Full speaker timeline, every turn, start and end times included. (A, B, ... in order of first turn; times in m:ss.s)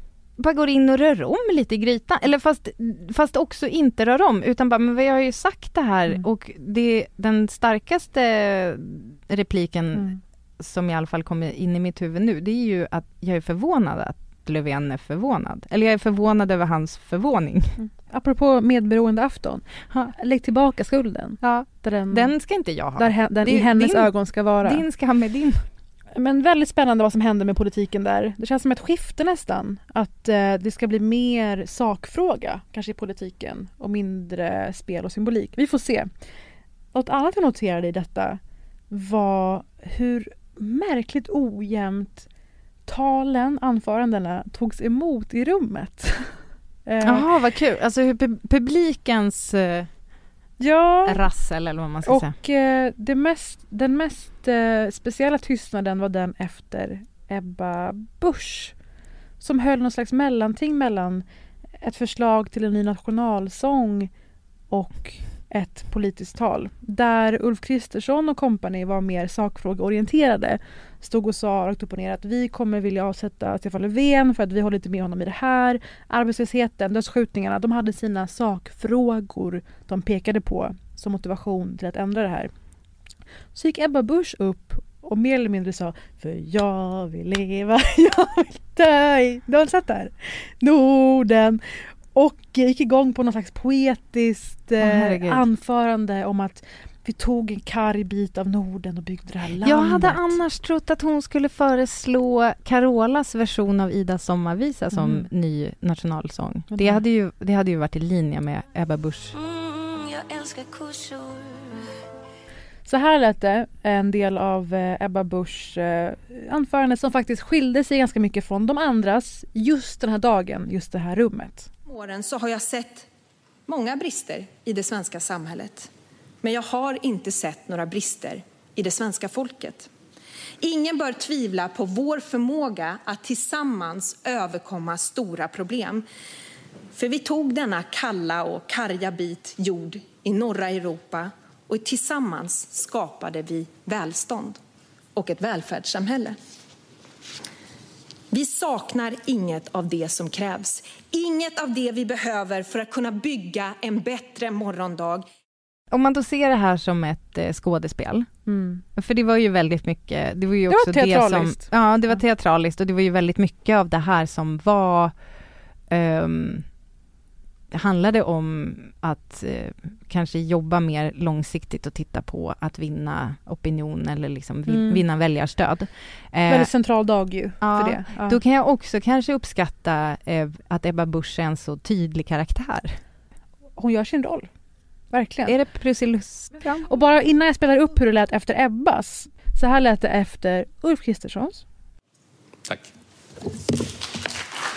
0:00.4-0:17.8 A
0:17.8-0:22.3 B
0:21.4-0:24.1 A
0:23.0-0:24.8 B
0:24.6-0:25.6 A
0:26.1-0:36.1 B
0:36.9-0:42.2 B
0:42.8-0:47.3 B
0:47.0-0:49.9 A
0:50.6-0:51.2 B
0:51.0-0:52.3 A
0:52.0-0:58.7 B
0:59.4-1:01.2 B
1:01.8-1:04.1 B
1:04.7-1:22.5 B
1:23.5-1:40.4 B
1:34.8-1:35.4 A
1:39.6-1:49.3 A
1:45.0-1:45.2 B
1:46.7-1:47.0 B
1:49.3-1:51.7 C
1:52.8-2:01.7 B
2:01.9-2:03.1 D
2:03.7-2:05.9 D
2:06.4-2:09.9 D
2:10.6-2:16.0 D
2:16.9-2:24.6 D
2:25.1-2:26.4 D
2:28.3-2:35.2 D
2:35.9-2:38.3 A
2:38.4-2:38.8 B
2:38.9-2:45.1 A
2:40.7-2:41.7 B
2:45.9-2:46.6 A
2:47.7-2:56.7 A
2:54.7-2:55.0 B
2:56.5-2:58.4 B
2:57.6-3:03.0 A
3:03.8-3:04.5 B
3:05.1-3:05.6 B
3:05.5-3:06.9 A
3:06.9-3:11.6 B